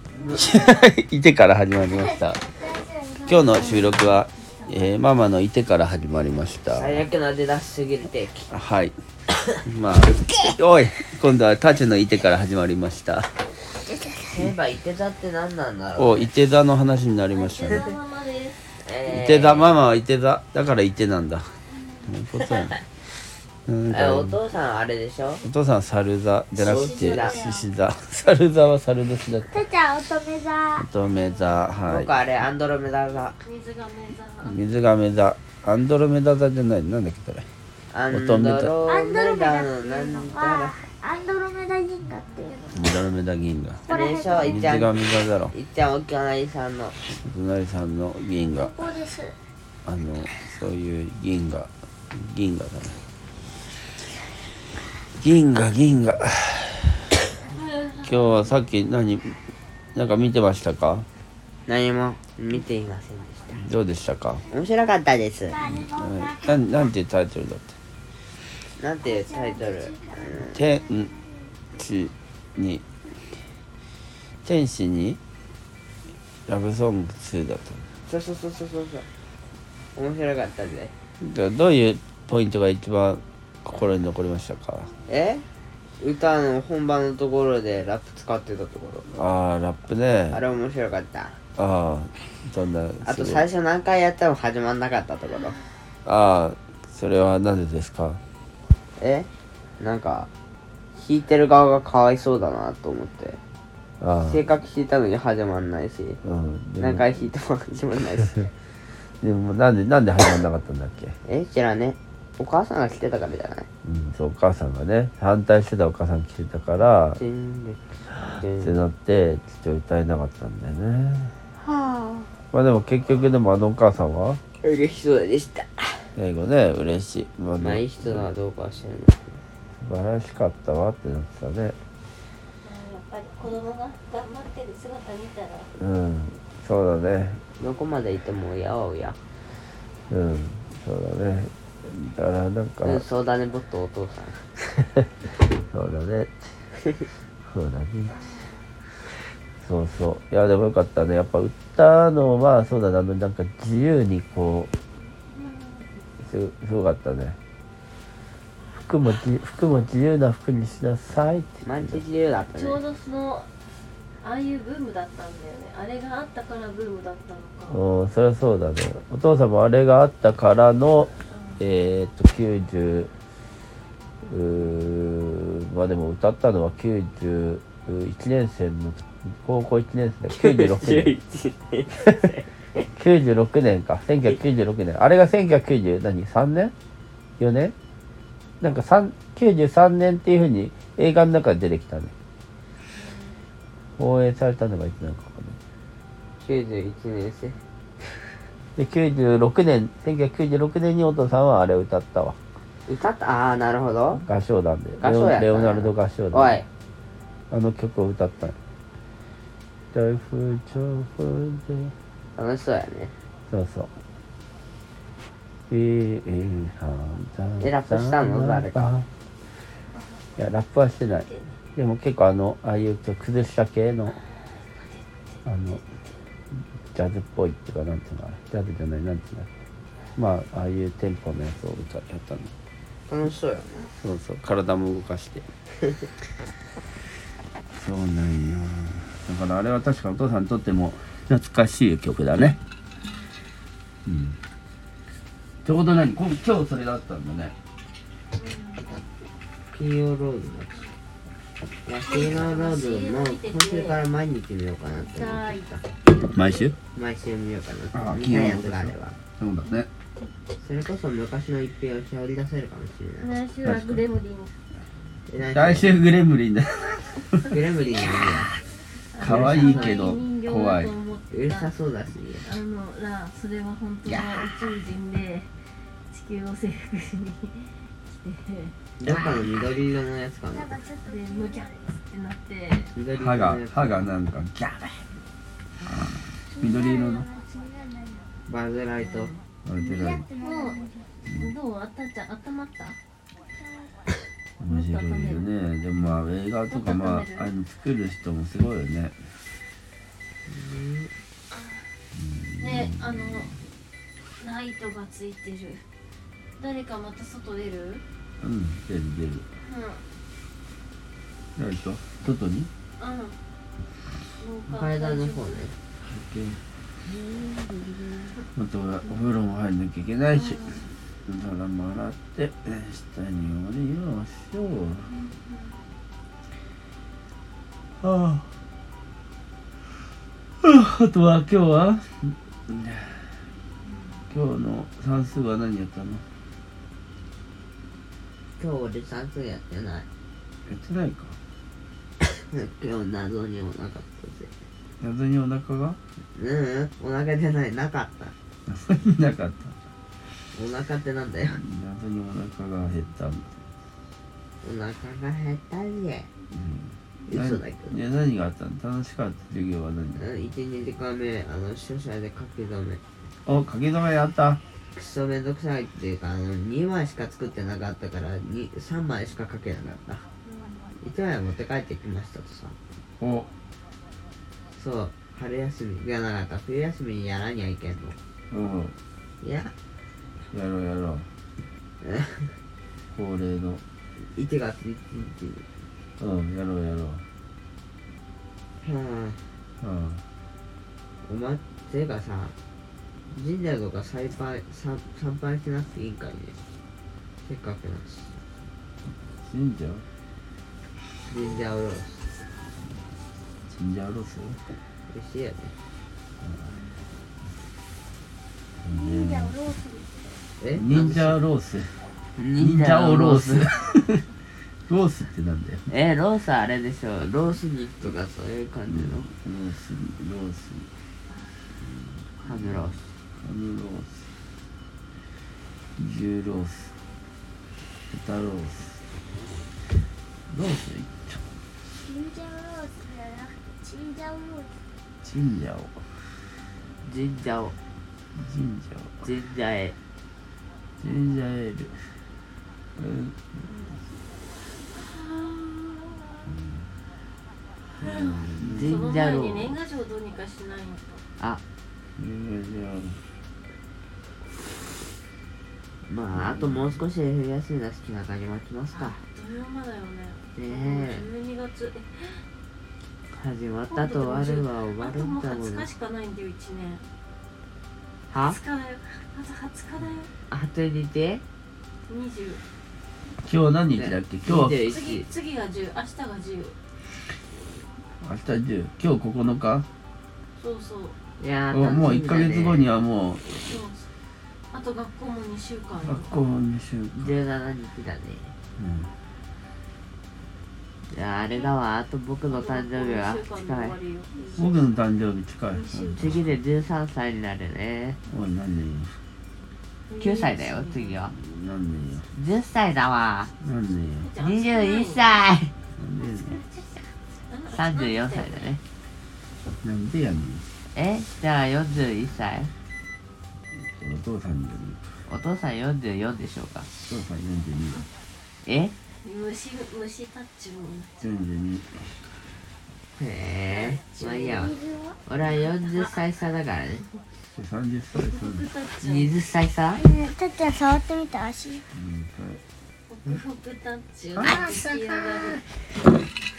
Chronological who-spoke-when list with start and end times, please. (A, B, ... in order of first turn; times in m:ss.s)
0:00.3-0:02.4 A
0:02.1-0:03.6 B
0:03.2-0:04.8 C
0:03.3-0:07.0 A
0:06.7-0:08.5 D
0:08.5-0:08.9 A
0:09.6-0:13.4 A
0:14.2-0:16.3 D
0:16.0-0:17.9 A
0:17.3-0:18.7 C
0:18.8-0:19.8 D
0:19.1-0:21.5 A
0:22.0-0:22.8 A
0:23.7-0:24.4 A
0:23.9-0:25.4 D
0:25.4-0:29.6 A
0:26.6-0:27.7 C
0:26.6-0:27.4 D
0:29.5-0:30.8 B
0:30.8-0:32.1 A
0:31.9-0:33.4 D
0:33.4-0:34.6 C
0:34.4-0:37.5 A
0:37.9-0:40.8 D
0:38.1-0:38.7 A
0:38.9-0:42.7 B
0:42.7-0:43.8 A
0:43.9-0:44.7 B
0:43.9-0:45.0 D
0:44.4-0:45.5 A
0:45.5-0:47.0 D
0:47.1-0:49.0 A
0:48.5-0:49.3 B
0:49.8-0:53.0 A
0:55.1-0:57.1 A
0:57.5-0:58.3 C
0:58.0-0:59.4 A
0:59.9-1:01.0 A
1:01.7-1:03.6 D
1:03.5-1:04.4 A
1:04.5-1:05.7 D
1:05.6-1:06.5 B
1:05.6-1:07.8 A
1:08.8-1:10.6 D
1:09.0-1:11.2 B
1:10.6-1:11.1 A
1:11.8-1:12.8 A
1:14.4-1:15.2 A
1:16.5-1:17.9 A
1:18.1-1:19.0 D
1:19.9-1:20.9 D
1:21.2-1:24.9 A
1:25.1-1:25.4 D
1:26.0-1:29.1 D
1:29.1-1:30.4 A
1:30.3-1:31.4 D
1:31.6-1:33.4 A
1:33.0-1:35.6 D
1:36.0-1:38.2 A
1:39.0-1:39.3 D
1:39.8-1:40.3 D
1:40.9-1:43.4 D
1:44.0-1:44.4 A
1:44.3-1:46.2 D
1:46.2-1:47.2 A
1:46.8-1:48.5 D
1:49.2-1:51.1 A
1:51.2-1:53.7 D
1:53.8-1:57.2 A
1:57.2-1:58.8 D
1:58.6-2:01.4 A
2:01.6-2:02.3 D
2:02.5-2:04.4 A
2:04.6-2:06.1 D
2:06.2-2:08.3 A
2:07.6-2:09.4 D
2:09.8-2:11.8 A
2:12.6-2:15.7 C
2:15.8-2:17.4 A
2:17.6-2:19.2 D
2:20.1-2:23.0 A
2:22.8-2:24.5 D
2:25.2-2:26.6 A
2:27.4-2:28.3 A
2:29.6-2:34.7 A
2:35.2-2:36.0 C
2:36.2-2:37.4 A
2:38.7-2:42.0 A
2:41.6-2:42.8 D
2:42.5-2:43.5 C
2:44.2-2:47.8 C
2:47.7-2:53.1 A
2:51.3-2:51.6 C
2:54.2-3:01.1 A
3:00.4-3:02.5 D
3:02.9-3:06.7 A
3:07.4-3:07.7 A
3:08.6-3:12.1 A
3:14.0-3:15.6 A
3:16.4-3:17.6 D
3:18.8-3:22.4 A
3:22.9-3:24.2 D
3:24.2-3:26.6 A
3:25.0-3:26.6 D
3:27.5-3:28.6 A
3:29.9-3:31.9 A
3:32.4-3:33.1 D
3:33.5-3:33.9 A
3:35.7-3:39.1 A
3:37.6-3:39.0 D
3:40.4-3:44.2 A
3:41.1-3:41.5 C
3:44.8-3:45.8 C
3:45.4-3:45.8 A
3:46.9-3:49.5 A
3:50.2-3:52.5 A
3:53.1-3:53.9 D
3:53.9-3:55.4 A
3:57.7-4:02.6 A
4:04.1-4:04.4 A
4:05.6-4:07.5 A
4:08.3-4:08.9 C
4:09.7-4:10.8 D
4:11.8-4:15.6 D
4:12.0-4:14.0 C
4:15.0-4:16.7 C
4:16.3-4:16.8 A
4:16.9-4:19.2 D
4:17.9-4:19.9 A
4:20.6-4:23.3 D
4:23.2-4:24.5 C
4:23.6-4:24.0 A
4:25.3-4:26.0 D
4:25.4-4:27.6 A
4:27.5-4:28.5 D
4:29.1-4:31.7 C
4:29.2-4:30.9 A
4:29.2-4:30.1 D
4:31.3-4:32.4 D
4:32.4-4:35.5 C
4:36.1-4:38.8 C
4:39.0-4:40.8 D
4:39.0-4:39.4 A
4:40.5-4:41.8 B
4:41.1-4:42.9 C
4:42.9-4:44.1 D
4:43.1-4:45.1 A
4:45.9-4:47.3 A
4:46.5-4:48.3 B
4:48.4-4:49.3 D
4:49.0-4:49.4 C
4:49.6-4:50.3 A
4:49.8-4:51.1 B
4:50.4-4:53.0 C
4:51.2-4:51.5 A
4:54.6-4:59.2 A
4:54.7-4:55.4 C
4:56.7-4:57.5 C
5:00.5-5:01.1 D
5:01.5-5:01.8 C
5:02.1-5:03.6 A
5:02.6-5:03.6 C
5:04.4-5:05.8 C
5:06.6-5:08.0 C
5:08.4-5:09.4 A
5:09.6-5:10.0 C
5:11.6-5:12.7 A
5:13.0-5:13.4 C
5:14.3-5:15.6 C
5:14.7-5:15.7 D
5:16.0-5:16.6 A
5:17.1-5:18.3 D
5:18.6-5:20.6 A
5:20.3-5:20.9 C
5:21.2-5:25.1 A
5:25.1-5:25.8 C
5:28.0-5:28.5 A
5:30.6-5:33.4 A
5:33.8-5:34.2 C
5:34.3-5:36.2 A
5:38.6-5:40.1 D
5:40.6-5:41.4 A
5:42.2-5:44.5 D
5:45.0-5:46.0 A
5:46.3-5:48.3 D
5:48.7-5:49.8 A
5:50.5-5:51.6 D
5:51.4-5:53.6 A
5:54.6-5:56.3 D
5:56.5-6:00.2 A
5:57.3-5:58.0 D
6:00.2-6:03.0 D
6:03.4-6:04.6 A
6:04.9-6:10.2 D
6:10.4-6:10.9 C
6:11.0-6:12.8 D
6:13.2-6:13.5 A
6:14.7-6:18.2 D
6:18.5-6:18.9 A
6:19.4-6:19.7 D
6:20.5-6:21.3 A
6:22.0-6:22.6 D
6:23.1-6:23.8 A
6:24.3-6:25.6 D
6:26.2-6:27.2 A
6:28.8-6:29.5 D
6:29.8-6:30.2 A
6:31.2-6:32.6 D
6:33.3-6:36.6 D
6:37.4-6:38.4 D
6:39.4-6:40.0 A
6:41.2-6:42.2 D
6:43.7-6:44.6 A
6:45.1-6:45.7 D
6:46.4-6:46.7 A
6:48.8-6:49.7 A
6:48.9-6:50.4 B
6:50.6-6:51.4 D
6:50.8-6:52.0 A
6:52.4-6:53.7 D
6:52.6-6:54.2 A
6:54.8-6:55.9 A
6:55.9-6:59.3 D
6:58.9-7:00.9 A
7:02.4-7:03.1 D
7:03.4-7:04.3 A
7:06.0-7:07.0 A
7:08.1-7:09.0 A
7:10.5-7:11.4 A
7:12.0-7:14.8 B
7:15.2-7:16.1 A
7:17.0-7:17.8 D
7:18.3-7:19.2 A
7:19.2-7:19.9 D
7:21.0-7:22.1 A
7:23.0-7:23.9 A
7:24.9-7:26.5 C
7:26.5-7:26.9 A
7:28.0-7:29.2 A
7:28.0-7:29.8 D
7:28.0-7:31.2 C
7:32.2-7:33.2 A
7:36.1-7:39.2 D
7:36.3-7:37.0 A
7:38.9-7:42.4 C
7:40.6-7:41.2 D
7:43.3-7:45.9 D
7:43.9-7:47.1 C
7:48.3-7:48.6 D
7:48.3-7:50.3 C
7:50.5-7:51.4 D
7:52.1-7:52.6 C
7:53.4-7:54.8 A
7:53.9-7:55.3 D
7:54.9-7:56.8 C
7:58.2-7:59.9 A
8:00.6-8:01.2 C
8:01.4-8:02.9 D
8:01.7-8:03.6 A
8:03.5-8:04.1 C
8:04.7-8:06.3 C
8:06.0-8:07.3 A
8:07.2-8:08.5 D
8:08.8-8:09.1 A
8:11.1-8:13.9 D
8:12.5-8:15.0 C
8:14.6-8:16.4 A
8:15.7-8:16.4 C
8:16.2-8:18.2 D
8:18.3-8:19.2 A
8:20.1-8:21.2 C
8:20.2-8:21.3 D
8:21.3-8:22.3 A
8:22.3-8:23.5 D
8:23.6-8:24.3 A
8:24.2-8:25.4 C
8:24.4-8:25.7 D
8:26.0-8:26.6 A
8:26.2-8:28.7 C
8:27.7-8:28.8 D
8:29.8-8:30.6 A
8:30.9-8:32.7 D
8:33.7-8:35.0 A
8:35.3-8:36.9 D
8:37.1-8:38.1 A
8:38.6-8:38.9 D
8:39.2-8:41.2 C
8:41.2-8:42.3 A
8:43.2-8:47.0 D
8:43.7-8:44.7 C
8:44.5-8:45.2 B
8:45.4-8:46.2 C
8:47.5-8:48.7 A
8:48.1-8:49.4 C
8:49.0-8:50.0 D
8:50.0-8:51.8 B
8:51.9-8:52.6 A
8:53.1-8:55.6 C
8:54.4-8:55.6 A